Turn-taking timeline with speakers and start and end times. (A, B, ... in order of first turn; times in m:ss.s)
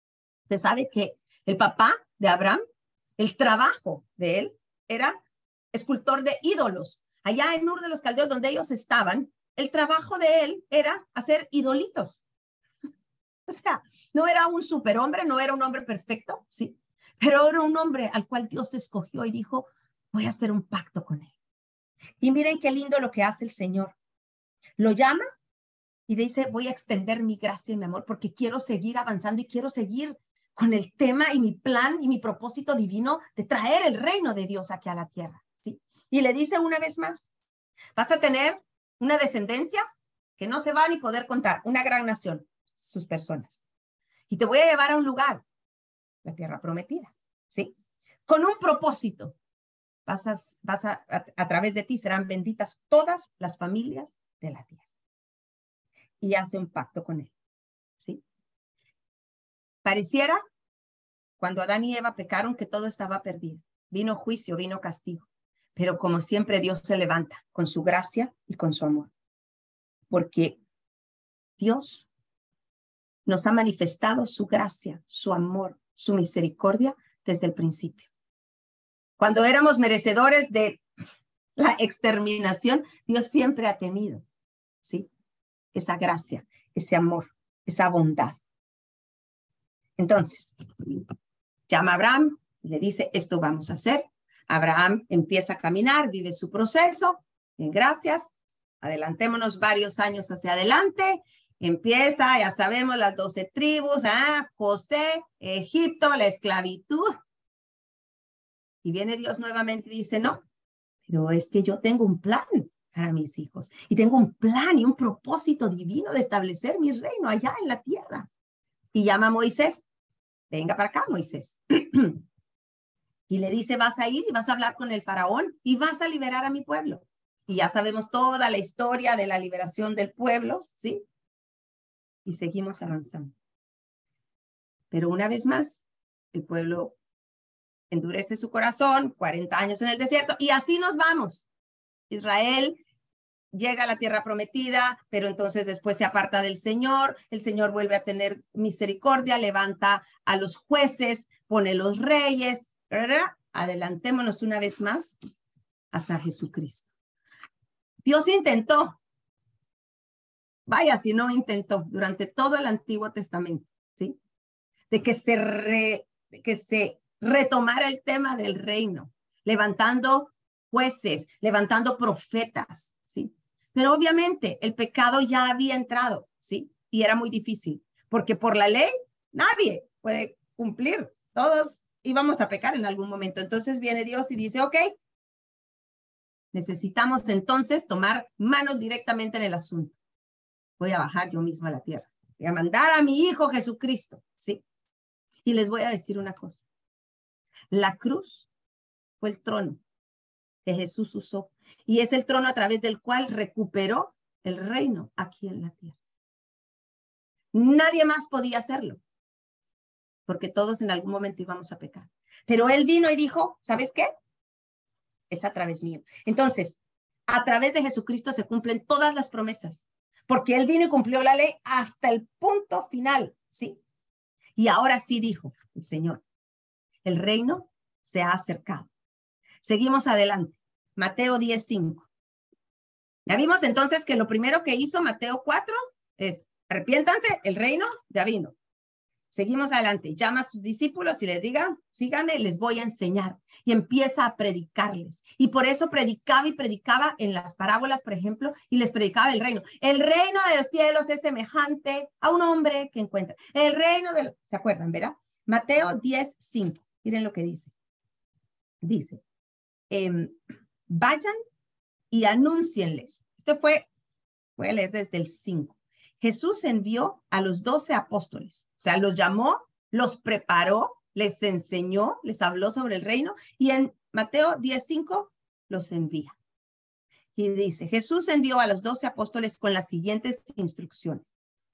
0:00.5-0:02.6 A
0:03.2-0:05.2 A
0:05.7-0:12.2 A
0:13.5-0:21.3 A
0:22.2-0:23.9 A
0:24.8-0:25.2 A
0:26.1-0:37.3 A
0:38.0-0:39.8 A
0:40.4-0:43.6 A
0:44.3-0:45.4 A
0:46.2-0:47.7 A
0:48.3-0:49.4 A
0:50.1-0:54.8 A
0:56.2-0:57.3 A
0:59.8-1:00.4 A
1:01.4-1:09.1 A
1:10.1-1:10.6 A
1:11.6-1:12.1 A
1:13.3-1:18.1 A
1:19.2-1:20.8 A
1:21.6-1:24.2 A
1:24.8-1:25.1 A
1:25.7-1:28.4 A
1:30.0-1:31.1 A
1:31.7-1:38.3 A
1:38.8-1:47.1 A
1:48.8-1:50.4 A
1:51.1-1:58.3 A
1:58.9-1:59.9 A
2:00.5-2:02.2 A
2:03.3-2:11.0 A
2:12.2-2:13.3 A
2:14.9-2:17.0 A
2:17.9-2:21.5 A
2:22.1-2:22.8 A
2:23.5-2:35.2 A
2:35.9-2:36.9 A
2:38.0-2:39.0 A
2:40.7-2:44.2 A
2:44.9-3:04.9 A
3:06.5-3:10.0 A
3:10.8-3:14.6 A
3:15.4-3:16.7 A
3:17.7-3:18.5 A
3:19.2-3:19.8 A
3:20.6-3:26.0 A
3:27.5-3:29.0 A
3:30.3-3:34.1 A
3:35.3-3:43.8 A
3:44.6-3:46.2 A
3:47.0-3:48.9 A
3:49.6-3:52.1 A
3:53.3-3:58.5 A
3:59.3-4:17.7 A
4:18.8-4:19.2 A
4:19.9-4:20.4 A
4:20.9-4:21.4 A
4:22.1-4:23.9 A
4:24.6-4:36.4 A
4:37.4-4:41.3 A